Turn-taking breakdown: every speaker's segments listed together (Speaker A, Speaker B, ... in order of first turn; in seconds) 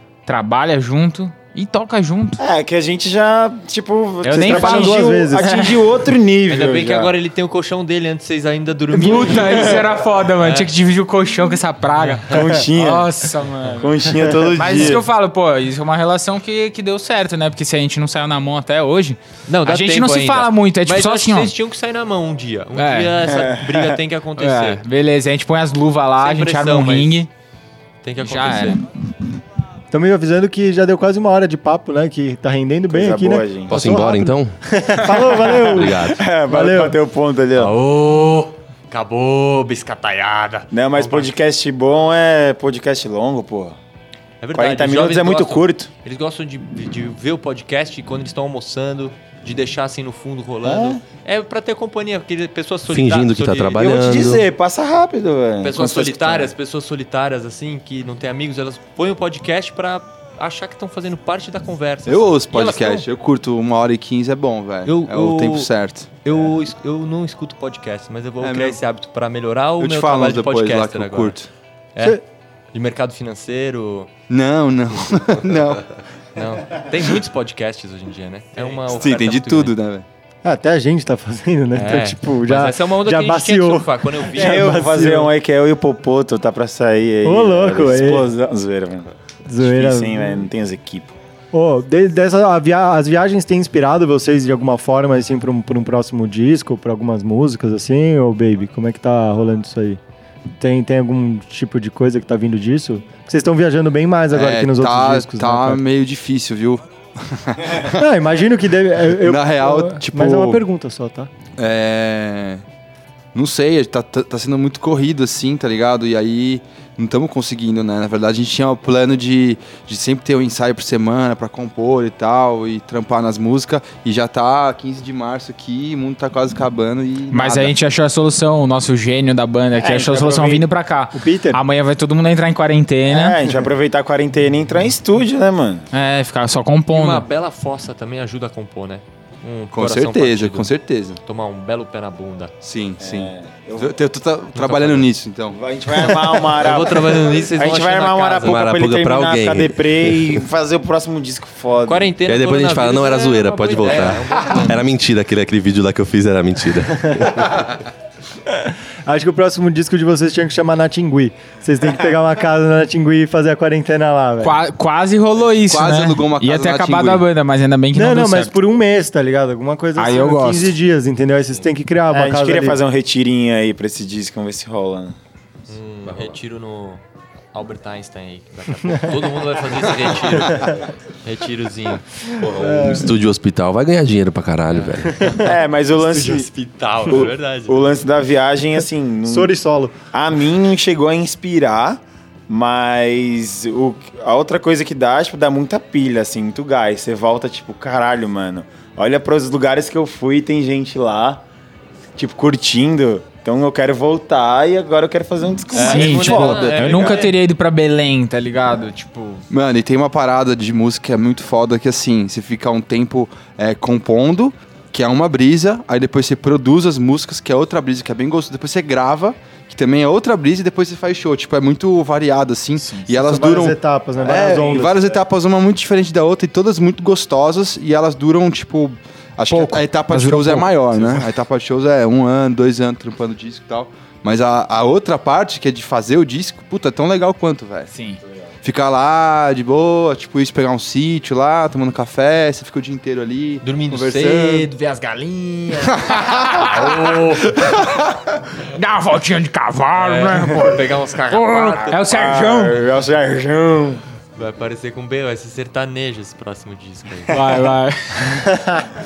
Speaker A: 0.3-2.4, 4.2-5.8, 8.9-21.5, 22.8-23.2, 24.4-27.3, 28.2-28.8, 127.3-133.4, 135.9-137.2, 164.4-168.6, 170.0-170.7, 205.7-209.4, 222.8-223.1, 229.5-231.2, 237.9-238.2, 244.8-252.8, 257.3-258.4
Speaker B: 2.4-7.1, 9.5-9.8, 12.3-13.2, 13.8-15.1, 23.4-23.9, 32.9-33.8, 35.3-37.7, 40.7-43.8, 44.5-45.9, 50.6-51.0, 53.8-56.5, 84.3-91.1, 129.7-130.7, 133.1-135.9, 143.0-144.0, 145.5-152.1, 172.1-175.2, 185.4-186.5, 187.1-189.5, 190.1-201.4, 202.2-207.2, 252.1-254.0
Speaker C: 4.3-5.5, 29.9-37.0, 80.4-85.3, 87.2-88.3, 89.5-90.5, 91.5-100.0, 100.6-105.8, 107.9-111.3, 131.1-131.6, 157.1-157.5, 158.5-164.6, 167.9-172.8, 182.4-183.1, 189.3-190.0, 223.1-225.2, 258.3-258.9
Speaker D: 6.5-9.8, 10.4-10.7, 19.5-24.8, 26.2-27.2, 28.0-28.8, 37.6-41.3, 44.4-53.9, 55.6-63.1, 64.8-71.4, 72.0-72.2, 72.7-74.1, 76.3-79.8, 81.7-84.9, 136.9-142.5, 144.6-145.1, 146.6-148.6, 151.9-154.8, 175.7-177.0, 177.5-182.1, 184.7-188.0, 205.7-207.4, 243.6-244.7, 246.6-247.5, 249.9-252.0, 254.4-257.4
Speaker E: 33.7-34.6, 35.7-36.2, 52.9-54.5, 148.4-150.4, 152.2-157.6, 176.1-176.4, 182.4-185.4
Speaker F: 62.1-66.4, 68.4-68.8, 69.8-71.5, 74.3-75.9, 78.9-80.1, 104.3-108.0, 109.1-110.6, 111.6-112.6, 113.3-127.8, 139.7-141.2, 142.6-146.2, 165.5-167.3, 209.5-237.9, 238.6-244.7, 245.8-246.2